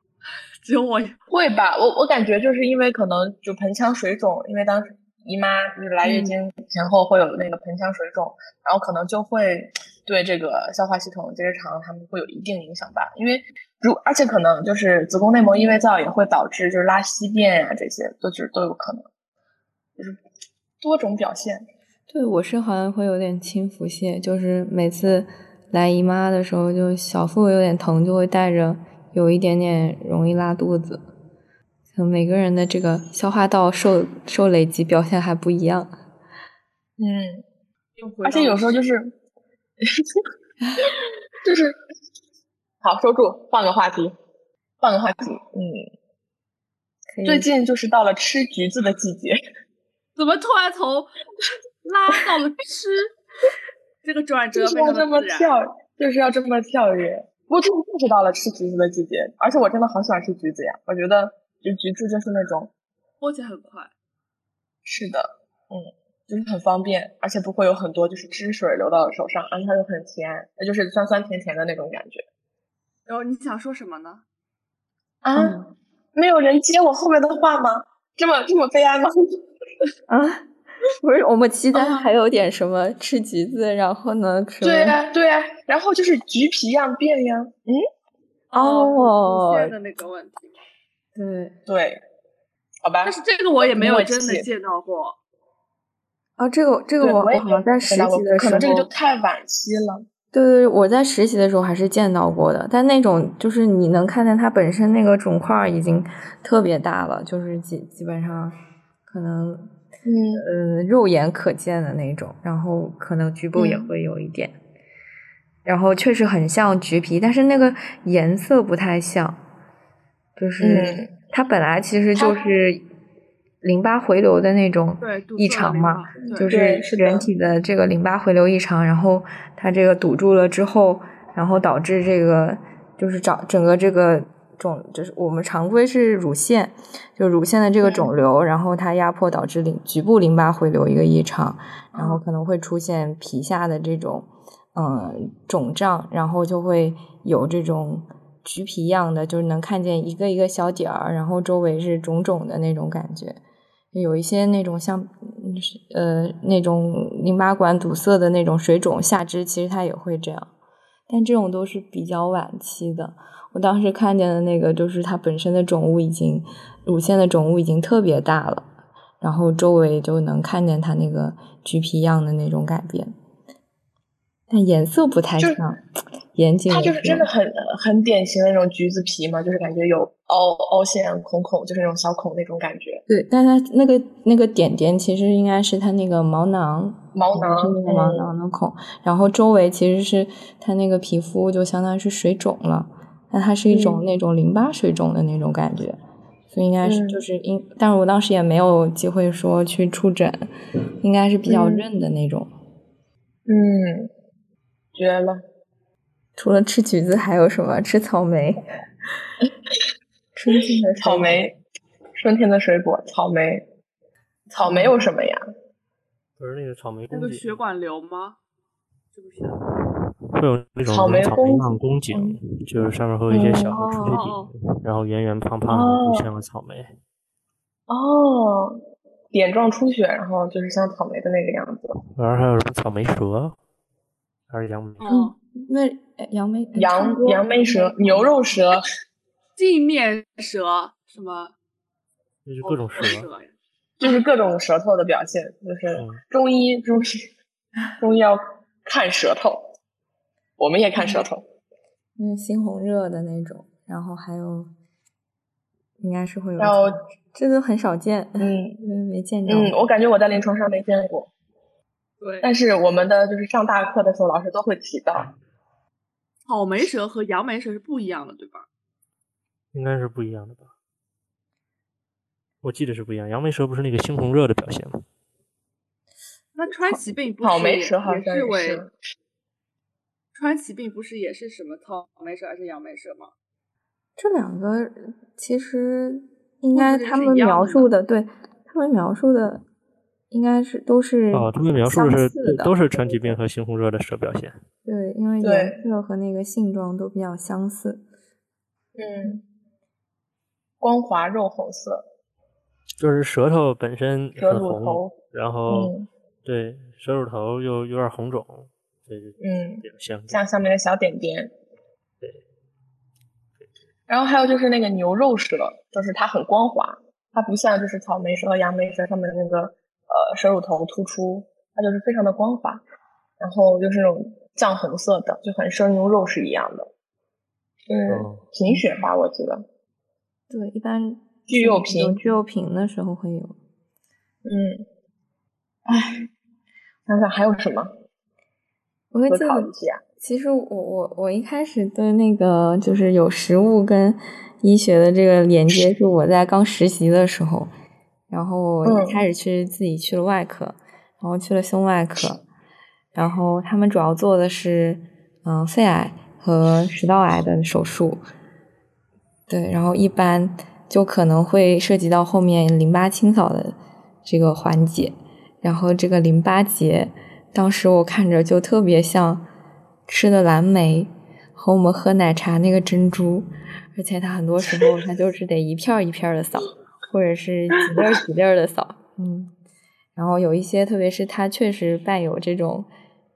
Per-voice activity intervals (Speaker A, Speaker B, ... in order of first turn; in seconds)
Speaker A: 0.6-1.2, 6.0-6.3, 38.0-38.8, 50.2-51.1, 51.9-53.1, 54.0-55.5, 63.2-63.9, 73.1-74.2, 88.5-90.5, 93.0-95.2, 125.0-126.5, 217.1-218.4, 219.1-219.6, 224.0-224.5, 235.0-235.3, 239.6-241.5, 242.6-244.2, 262.2-262.5, 266.5-268.7, 276.6-278.9, 280.3-283.3, 286.7-287.9
Speaker B: 1.3-19.1, 20.8-21.7, 37.0-37.4, 38.2-39.1, 39.8-40.2, 41.4-41.8, 42.8-44.1, 44.8-45.9, 47.2-49.4, 54.5-62.7, 64.8-72.2, 75.2-75.6, 76.2-79.4, 81.8-82.1, 84.6-87.8, 91.7-92.0, 92.8-94.5, 97.0-100.0, 110.0-110.5, 113.6-113.9, 120.6-121.1, 122.2-122.5, 126.4-127.3, 137.8-138.1, 142.0-142.2, 175.4-175.6, 176.7-183.0, 187.1-188.3, 193.7-194.0, 196.8-197.2, 201.5-201.9, 203.5-204.1, 204.9-205.4, 211.0-211.6, 212.2-213.7, 214.5-215.4, 220.9-221.8, 223.3-223.8, 225.7-226.3, 227.9-228.8, 229.3-232.0, 236.8-238.8, 244.0-247.3, 248.0-249.7, 250.6-251.4, 256.6-257.0, 258.4-258.8, 259.5-261.3, 262.4-265.3, 277.4-278.9, 295.4-295.8, 299.0-299.4, 300.8-302.1, 304.4-305.2, 305.7-306.1, 309.4-311.5, 314.1-322.8, 323.4-326.9, 327.9-329.6, 331.5-332.2, 334.4-334.9, 335.9-336.3, 337.1-337.9, 339.3-340.0, 348.8-349.2, 377.9-378.2
Speaker C: 22.1-31.0, 31.9-35.9, 47.1-47.5, 75.4-75.7, 80.1-80.4, 81.0-85.0, 88.5-89.7, 91.2-91.5, 96.4-98.9, 100.3-108.5, 109.1-109.7, 110.4-114.5, 115.7-119.4, 120.4-122.8, 123.6-153.4, 153.9-160.5, 161.1-168.7, 169.2-173.1, 174.5-175.8, 176.3-177.3, 183.1-196.0, 196.5-200.5, 201.0-202.5, 206.4-208.6, 210.3-211.4, 214.6-215.0, 235.1-238.3, 252.2-254.7, 256.0-259.8, 284.2-289.6, 290.3-293.4, 294.9-298.0, 330.5-333.6, 339.1-339.7, 340.2-347.7, 348.3-352.4, 353.1-358.2, 359.5-369.5, 370.1-379.5, 380.2-382.9
Speaker D: 216.4-217.6, 220.4-226.9, 232.2-233.6, 234.5-235.1, 242.5-243.3, 245.9-246.2, 269.7-270.7, 272.6-275.0, 291.3-294.6, 303.0-305.9, 306.4-310.4, 328.1-328.4